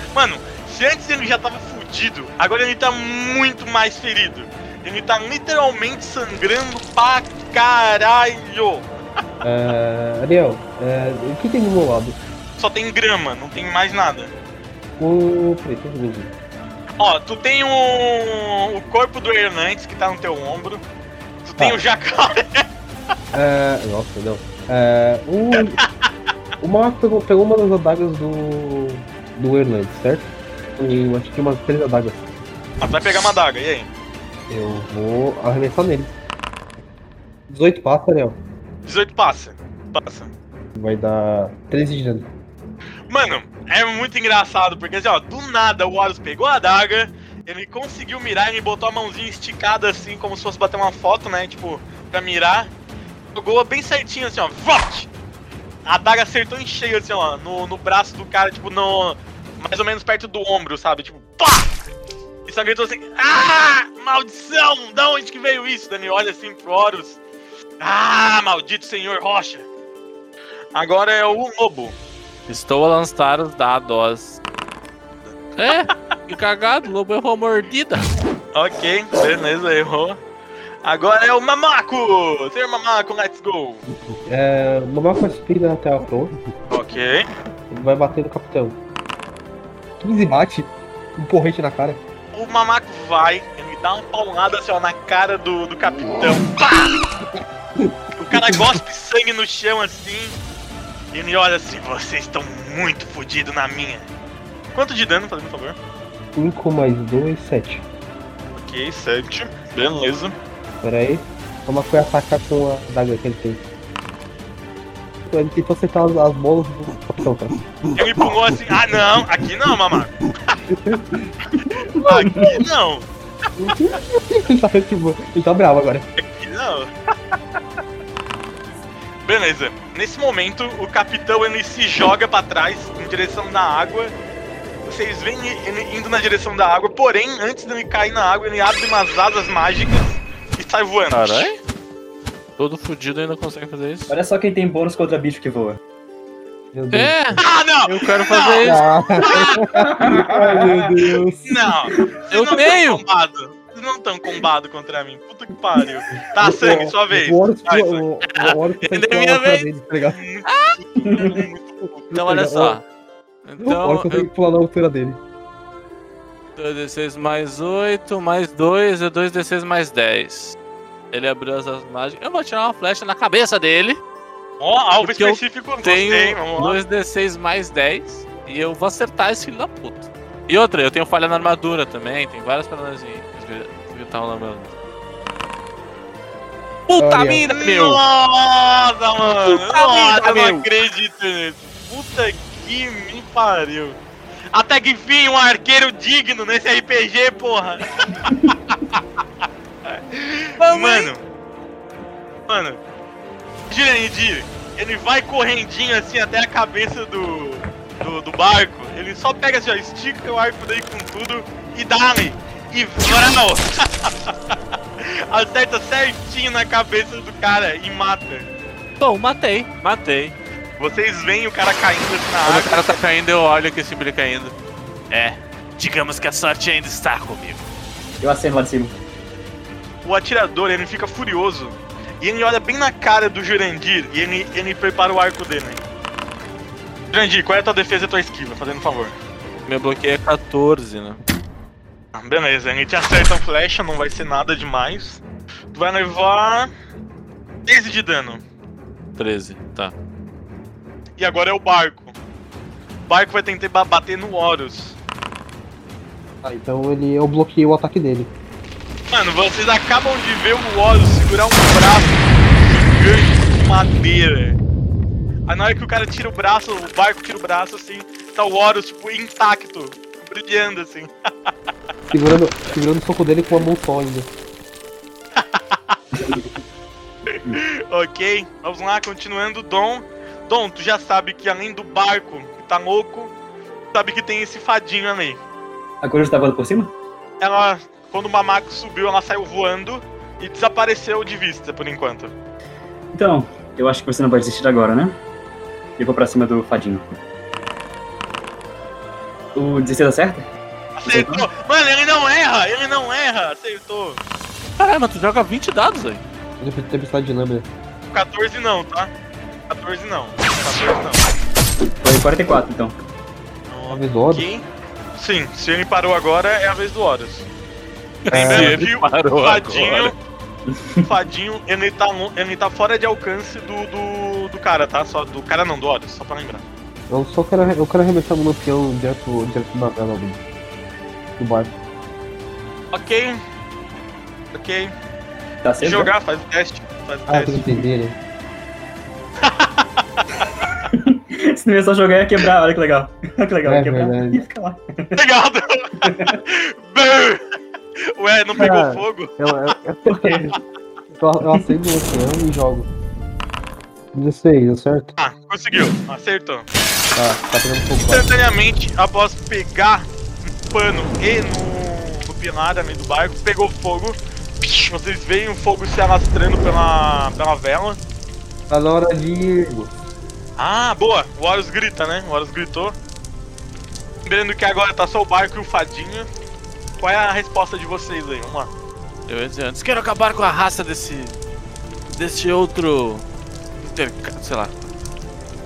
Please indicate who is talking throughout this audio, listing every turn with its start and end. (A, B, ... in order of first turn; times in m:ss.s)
0:00.1-0:08.9 A
0:09.4-0:12.2 B
0:12.6-0:14.3 A
0:15.0-0:16.3 B
0:17.0-0:20.8 A
0:21.4-0:22.7 A
0:23.3-0:25.8 B
0:26.6-0:32.3 B
0:32.8-0:33.9 A
0:34.5-0:36.1 B
0:37.5-0:38.4 B
0:38.9-0:40.3 A
0:40.8-0:42.3 B
0:43.1-0:52.7 A
0:53.3-0:55.1 A
0:55.8-1:01.8 A
1:02.5-1:07.2 A
1:07.8-1:09.7 A
1:10.7-1:12.0 A
1:12.5-1:14.4 C
1:15.6-1:18.1 C
1:18.5-1:20.2 A
1:20.8-1:23.8 A
1:23.9-1:26.4 B
1:26.7-1:27.3 A
1:27.7-1:28.8 B
1:30.0-1:32.0 B
1:32.3-1:37.1 A
1:37.8-1:38.8 B
1:38.2-1:40.4 A
1:41.1-1:44.1 A
1:44.7-1:45.8 A
1:46.3-1:47.8 B
1:48.6-1:50.4 A
1:50.8-1:53.6 B
1:55.3-1:57.6 B
1:58.0-2:00.1 A
2:00.7-2:01.3 B
2:01.6-2:02.6 D
2:01.7-2:03.1 A
2:03.6-2:06.1 B
2:06.2-2:06.9 A
2:09.2-2:14.1 A
2:14.9-2:21.5 A
2:21.1-2:21.6 C
2:22.6-2:24.1 C
2:24.1-2:25.8 D
2:26.7-2:27.4 B
2:26.9-2:28.8 C
2:27.4-2:29.6 A
2:28.6-2:31.7 B
2:29.8-2:30.9 D
2:31.5-2:38.0 A
2:32.3-2:33.0 C
2:36.4-2:40.2 B
2:38.3-2:39.7 C
2:40.2-2:42.1 A
2:40.5-2:40.8 C
2:41.0-2:41.4 D
2:42.1-2:42.8 B
2:42.1-2:42.8 C
2:43.4-2:44.3 C
2:43.6-2:45.2 B
2:46.6-2:50.6 C
2:51.1-2:54.0 C
2:54.6-2:56.8 A
2:55.0-3:04.7 C
3:06.9-3:08.0 C
3:07.0-3:07.4 B
3:07.5-3:14.0 A
3:09.4-3:10.6 C
3:14.5-3:19.0 A
3:19.9-3:21.2 A
3:20.6-3:21.1 C
3:22.5-3:22.8 A
3:23.7-3:38.5 A
3:39.0-3:40.4 C
3:40.8-3:43.0 A
3:42.4-3:44.5 C
3:45.1-3:47.6 C
3:48.2-3:49.0 D
3:50.0-3:55.8 A
3:57.1-3:59.2 A
3:59.7-4:01.2 C
4:02.1-4:05.2 A
4:05.7-4:06.7 A
4:07.7-4:08.4 A
4:09.2-4:09.9 C
4:11.2-4:12.1 A
4:13.1-4:15.0 A
4:16.4-4:18.3 B
4:19.1-4:24.6 A
4:25.5-4:31.1 A
4:32.1-4:34.3 B
4:35.4-4:36.0 A
4:37.5-4:43.3 A
4:43.9-4:45.4 A
4:46.0-4:46.9 D
4:47.4-4:52.3 A
4:53.1-4:55.2 D
4:56.0-4:57.1 D
4:59.6-5:00.5 D
5:01.0-5:04.2 A
5:01.1-5:01.5 D
5:04.8-5:06.2 C
5:06.6-5:07.7 B
5:08.1-5:09.1 A
5:09.7-5:11.3 A
5:12.0-5:12.9 D
5:13.7-5:17.5 A
5:13.9-5:14.5 B
5:18.3-5:20.1 C
5:18.3-5:20.2 A
5:18.3-5:18.8 B
5:20.8-5:21.0 D
5:21.0-5:26.6 A
5:27.1-5:30.4 B
5:31.4-5:31.7 B
5:32.9-5:33.4 A
5:34.5-5:34.9 A
5:35.6-5:36.1 D
5:35.8-5:37.7 A
5:37.3-5:38.2 B
5:39.4-5:40.2 A
5:40.9-5:45.2 D
5:43.7-5:44.4 B
5:45.2-5:47.4 A
5:46.0-5:46.4 D
5:48.2-5:49.4 A
5:48.6-5:50.6 B
5:50.1-5:50.5 D
5:51.2-5:52.9 B
5:54.1-5:55.2 B
5:55.2-5:56.7 A
5:57.2-5:58.3 B
5:58.0-6:08.0 A
6:08.7-6:09.9 B
6:10.6-6:13.0 A
6:14.3-6:16.3 A
6:17.0-6:18.7 A
6:19.3-6:21.4 C
6:22.1-6:23.3 C
6:23.8-6:24.9 C